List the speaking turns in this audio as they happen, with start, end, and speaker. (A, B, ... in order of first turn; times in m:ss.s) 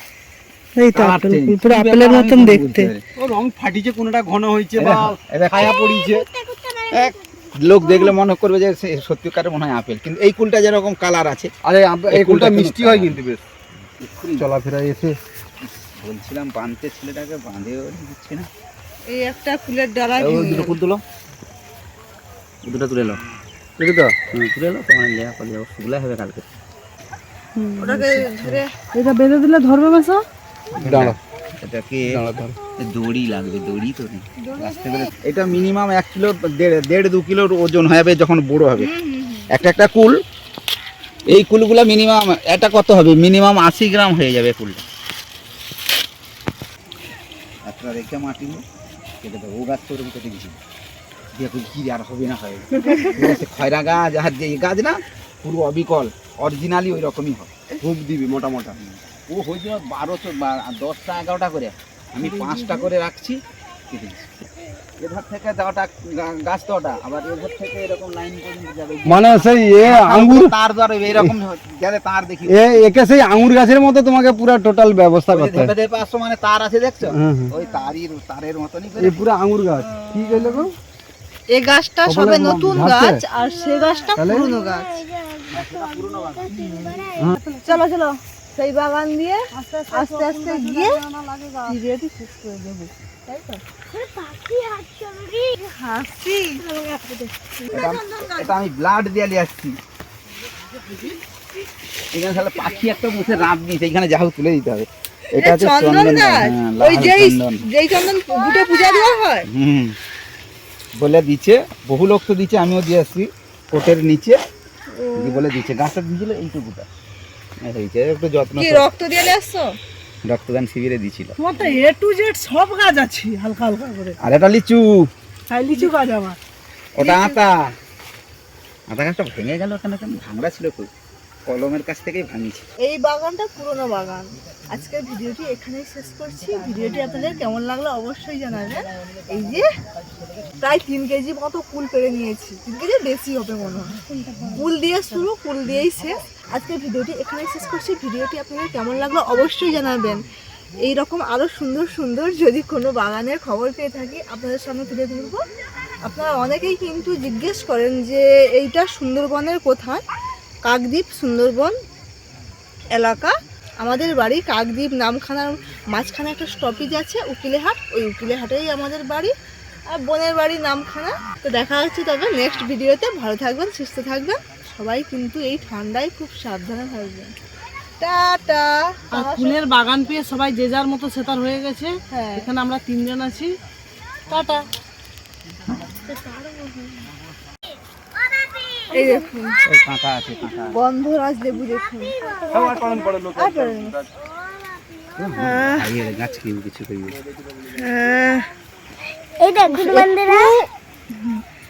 0:00.8-0:02.9 A
0:00.9-0:03.0 B
0:03.2-0:06.2 C
0:04.8-0:05.8 B
0:05.6-0:08.1 D
0:06.9-0:11.5 B
0:11.7-0:13.4 C
0:12.1-0:13.2 B
0:13.8-0:14.5 B
0:14.4-0:15.2 C
0:15.8-0:18.5 B
0:19.1-0:20.8 E
0:20.2-0:21.0 B
0:22.7-0:23.2 B
0:23.8-0:24.2 C
0:24.3-0:26.5 B
0:27.6-0:28.2 A
0:27.8-0:28.7 E
0:29.0-0:30.2 A
0:30.8-0:31.2 C
0:30.8-0:32.2 B
0:32.1-0:32.6 C
0:32.8-0:38.9 B
0:34.5-0:35.0 E
0:38.8-0:39.6 E
0:39.5-0:40.2 B
0:41.3-0:44.8 B
0:47.7-0:48.6 B
0:49.2-0:50.6 B
0:51.4-0:57.5 B
0:52.8-0:53.2 E
0:57.8-0:58.8 C
0:58.8-1:04.4 B
1:05.0-1:12.7 B
1:09.1-1:10.5 C
1:12.5-1:15.7 C
1:15.3-1:19.2 B
1:17.1-1:17.5 C
1:19.0-1:20.7 C
1:19.8-1:20.7 E
1:21.5-1:25.0 E
1:22.1-1:23.2 C
1:23.4-1:27.3 D
1:24.2-1:24.5 C
1:25.5-1:26.6 B
1:26.6-1:27.0 E
1:27.4-1:27.8 A
1:27.6-1:31.0 E
1:29.5-1:31.8 A
1:31.7-1:33.6 E
1:33.9-1:35.6 D
1:35.6-1:36.7 E
1:36.6-1:37.2 D
1:37.6-1:38.5 E
1:37.7-1:39.8 B
1:42.1-1:44.9 B
1:42.3-1:42.8 E
1:45.3-1:49.5 E
1:45.4-1:47.6 B
1:48.4-1:49.2 D
1:49.5-1:50.0 B
1:51.0-1:54.4 B
1:55.0-1:55.4 E
1:55.2-1:56.9 B
1:57.6-1:58.9 B
1:58.6-1:59.7 E
2:00.2-2:01.4 B
2:01.4-2:04.2 A
2:04.2-2:05.1 B
2:05.5-2:06.4 A
2:07.0-2:07.5 B
2:07.0-2:07.4 E
2:08.9-2:10.9 B
2:11.5-2:12.6 B
2:12.8-2:19.6 E
2:20.6-2:24.0 E
2:24.1-2:24.6 D
2:24.5-2:30.2 E
2:30.8-2:35.4 E
2:36.0-2:40.0 E
2:40.6-2:41.8 E
2:42.9-2:43.3 E
2:43.8-2:49.3 E
2:49.9-2:57.3 E
2:58.0-2:59.6 E
2:59.1-3:03.5 A
3:02.1-3:02.4 E
3:04.3-3:04.6 A
3:06.1-3:06.4 D
3:07.7-3:09.5 D
3:08.9-3:09.6 E
3:09.7-3:10.8 B
3:10.7-3:12.7 E
3:11.5-3:13.3 D
3:12.5-3:14.0 C
3:13.3-3:14.0 E
3:14.1-3:16.4 D
3:15.2-3:17.2 B
3:15.4-3:15.9 E
3:17.8-3:18.4 E
3:19.4-3:20.6 D
3:19.7-3:20.6 E
3:21.2-3:21.4 E